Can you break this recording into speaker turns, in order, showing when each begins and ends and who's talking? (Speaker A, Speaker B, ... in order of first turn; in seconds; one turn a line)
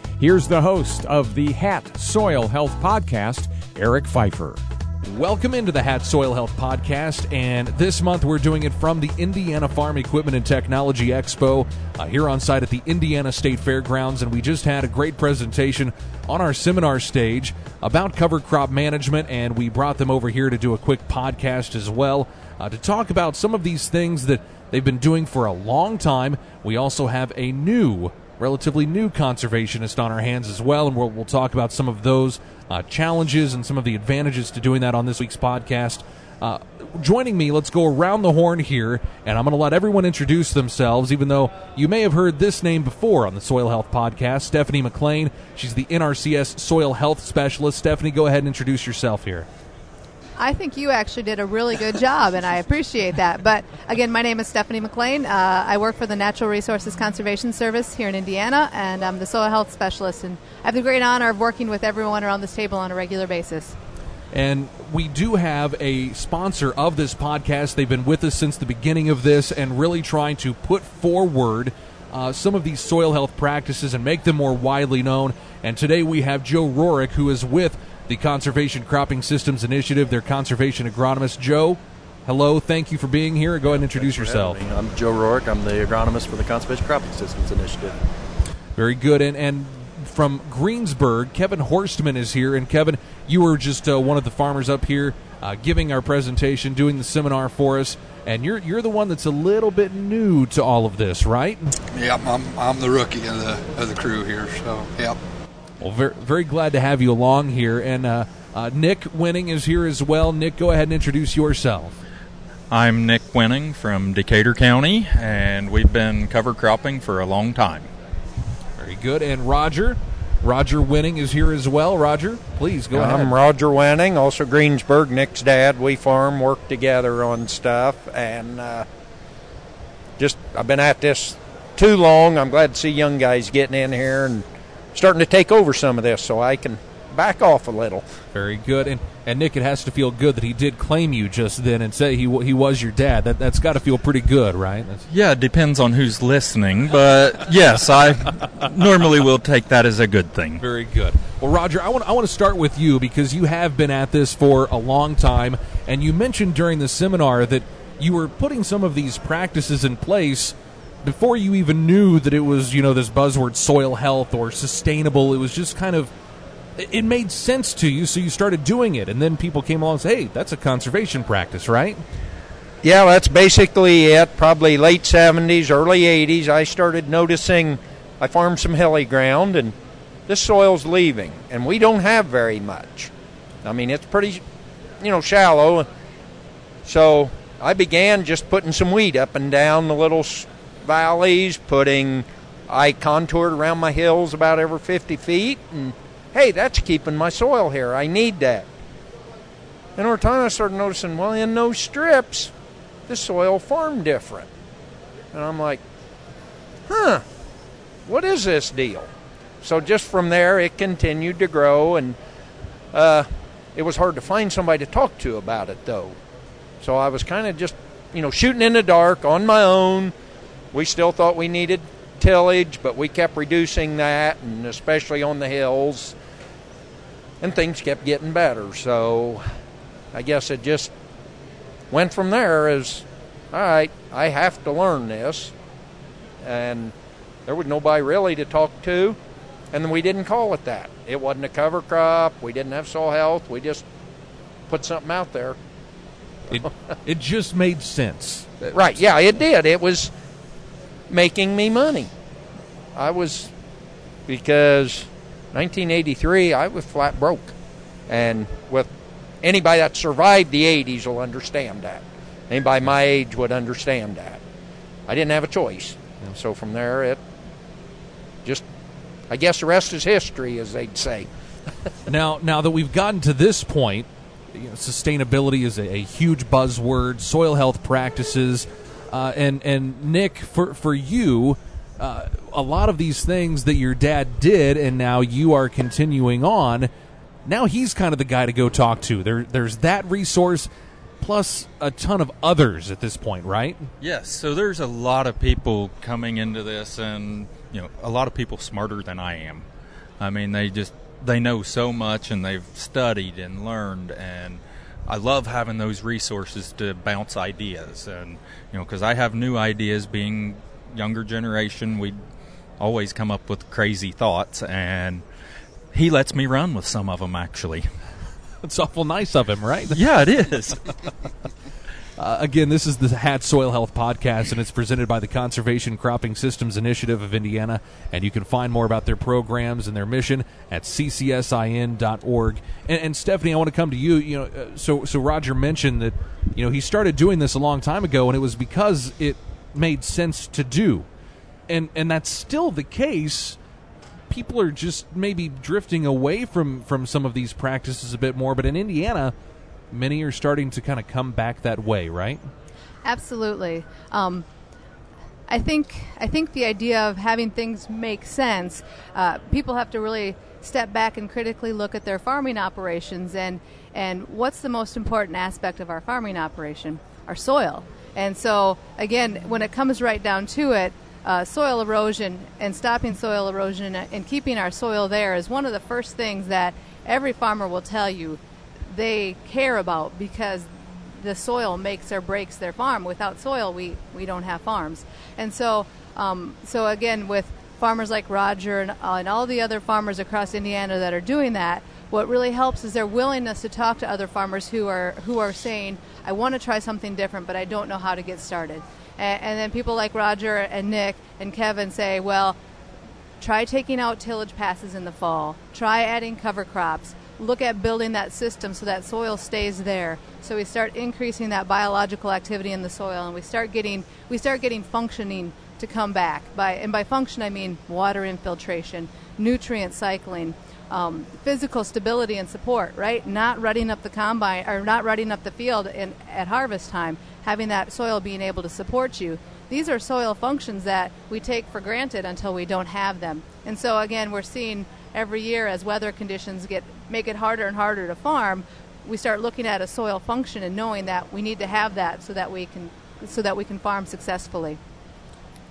Speaker A: 0.2-4.6
Speaker B: 5.0-49.5
Speaker C: 50.4-63.8
Speaker B: 64.3-84.6
Speaker D: 83.6-88.0
Speaker B: 88.8-101.7
Speaker E: 101.9-105.2
Speaker B: 105.8-112.0
Speaker F: 112.7-117.9
Speaker B: 118.8-123.3
Speaker G: 122.9-128.8
Speaker G: 130.2-138.0
Speaker B: 138.3-145.1
Speaker F: 145.1-150.6
Speaker B: 150.6-166.1
Speaker B: 166.8-172.0
Speaker G: 172.8-179.8
Speaker G: 180.3-183.1
Speaker G: 183.6-184.4
Speaker G: 185.0-185.9
Speaker G: 186.8-198.7
Speaker G: 200.0-202.5
Speaker G: 203.1-204.5
Speaker G: 205.3-205.8
Speaker G: 206.9-207.2
Speaker G: 208.1-209.1
Speaker G: 209.6-212.2
Speaker G: 212.9-216.2
Speaker G: 216.8-220.1
Speaker G: 220.7-226.2
Speaker G: 227.4-229.5
Speaker G: 230.1-230.9
Speaker G: 231.9-235.5
Speaker G: 236.4-236.9
Speaker G: 237.5-239.2
Speaker G: 239.7-243.8
Speaker G: 244.7-245.6
Speaker B: 246.5-248.8
Speaker G: 248.7-250.1
Speaker G: 251.1-252.1
Speaker G: 252.9-253.5
Speaker G: 254.3-257.5
Speaker G: 258.1-258.9
Speaker G: 259.4-264.4
Speaker G: 265.1-267.2
Speaker G: 269.3-271.3
Speaker B: 272.1-286.9
Speaker B: 287.4-290.7
Speaker B: 291.2-293.9
Speaker F: 294.0-299.6
Speaker F: 300.2-312.2
Speaker F: 312.8-315.2
Speaker F: 315.9-317.9
Speaker B: 318.6-320.0
Speaker F: 319.9-321.0
Speaker B: 322.2-341.1
Speaker B: 341.7-343.6
Speaker B: 344.3-349.3
Speaker B: 349.9-352.5
Speaker C: 353.0-354.4
Speaker C: 355.5-402.6
Speaker C: 403.4-444.8